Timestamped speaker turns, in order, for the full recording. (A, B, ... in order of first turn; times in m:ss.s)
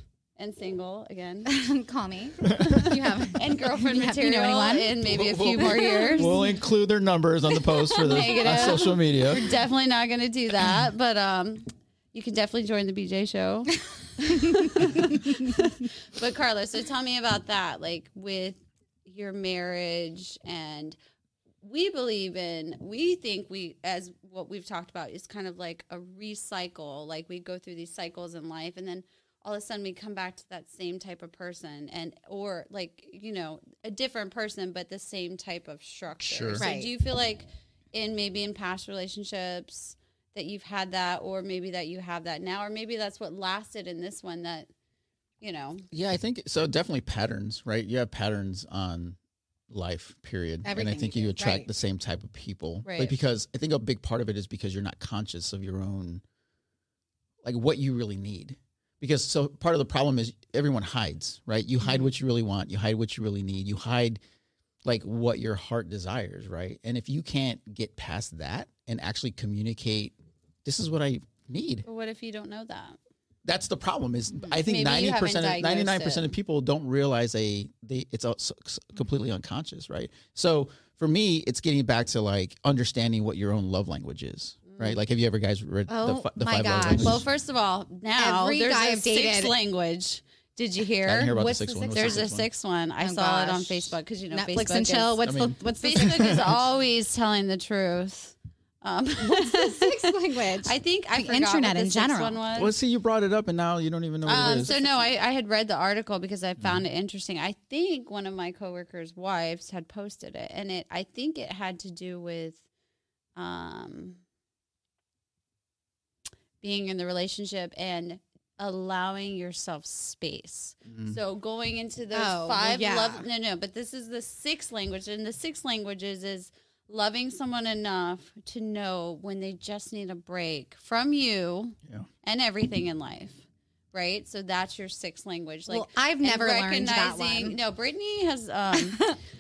0:00.4-0:01.5 A
0:01.5-0:05.0 B
0:02.4-0:02.9 C
0:02.6-0:06.4 A
0:05.0-0:09.5 C
0:05.7-0:06.4 B
0:07.9-0:21.0 A
0:21.6-0:44.7 A
0:36.2-0:36.7 C
0:36.6-0:36.9 B
0:45.4-0:45.9 A
0:45.9-0:49.2 C
0:49.7-0:56.2 C
0:50.6-0:51.7 B
0:52.8-0:53.2 A
0:57.4-1:04.2 C
1:04.8-1:11.8 C
1:11.8-1:13.0 A
1:13.4-1:27.2 C
1:14.6-1:16.3 A
1:24.7-1:25.0 A
1:25.9-1:27.2 B
1:27.0-1:31.4 A
1:28.2-1:29.6 B
1:31.0-1:32.5 C
1:31.3-1:32.4 B
1:31.9-1:35.2 A
1:33.0-1:36.5 B
1:35.2-1:36.5 C
1:35.8-1:42.8 A
1:39.2-1:42.4 B
1:42.6-1:44.8 C
1:44.2-1:52.6 A
1:44.6-1:45.0 B
1:53.4-1:54.2 A
1:56.6-2:19.1 A
2:02.1-2:03.3 B
2:15.7-2:17.6 B
2:18.7-2:19.2 B